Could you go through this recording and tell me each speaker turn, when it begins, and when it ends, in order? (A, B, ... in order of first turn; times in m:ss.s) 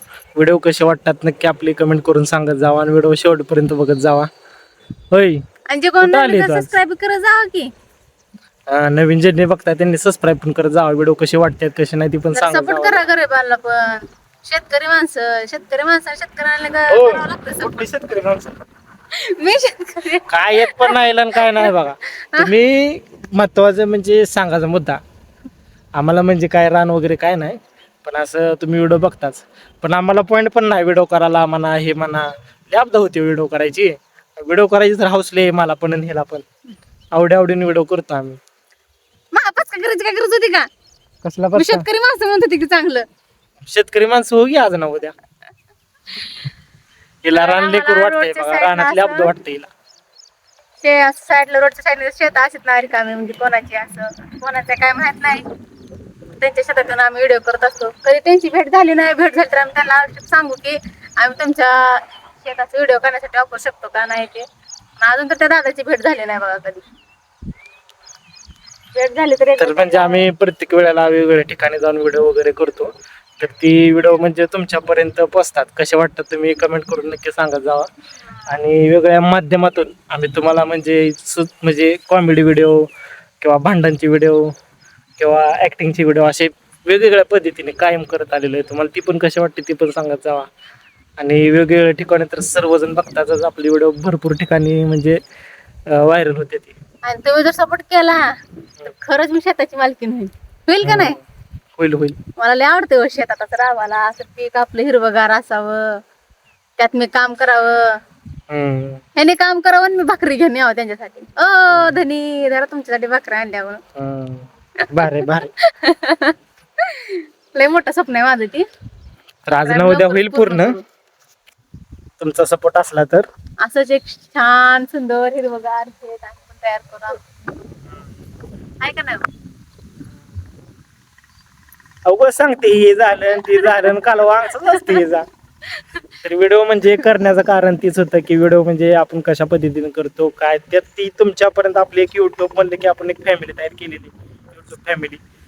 0:00.4-0:04.3 A
0:05.1-0:05.4 A
0:05.7-0:07.7 B
0:06.0-0:06.7 A
0:08.7-0:13.0 A
0:12.3-0:17.8 B
0:16.9-0:18.6 A
0:19.1-0:21.7 B
0:20.3-0:25.0 A
0:26.0-0:36.5 A
0:37.1-0:38.4 A
0:39.3-0:40.7 B
0:41.2-0:41.8 A
0:41.5-0:43.0 B
0:43.6-0:45.1 A
0:47.2-0:49.7 A
0:47.4-0:49.3 B
0:50.8-0:55.4 B
0:56.3-1:04.4 B
1:05.0-1:06.8 B
1:08.9-1:10.2 B
1:09.6-1:17.9 A
1:18.5-1:22.9 A
1:23.4-1:24.5 A
1:25.2-1:30.5 A
1:31.2-1:35.2 A
1:35.9-1:36.8 A
1:37.0-1:38.2 B
1:38.8-1:41.2 B
1:40.8-1:41.2 A
1:41.8-1:42.2 A
1:42.4-1:46.0 B
1:46.8-1:47.9 B
1:48.5-1:49.0 A
1:49.2-1:53.8 B
1:51.7-1:52.0 A
1:54.0-1:55.5 A
1:54.8-1:58.7 B
1:59.5-2:00.8 A
1:59.6-2:00.8 B
2:02.2-2:03.2 A
2:03.6-2:07.3 B
2:08.8-2:09.3 B
2:12.1-2:15.2 A
2:13.5-2:13.9 B
2:14.7-2:15.0 B
2:16.2-2:25.2 A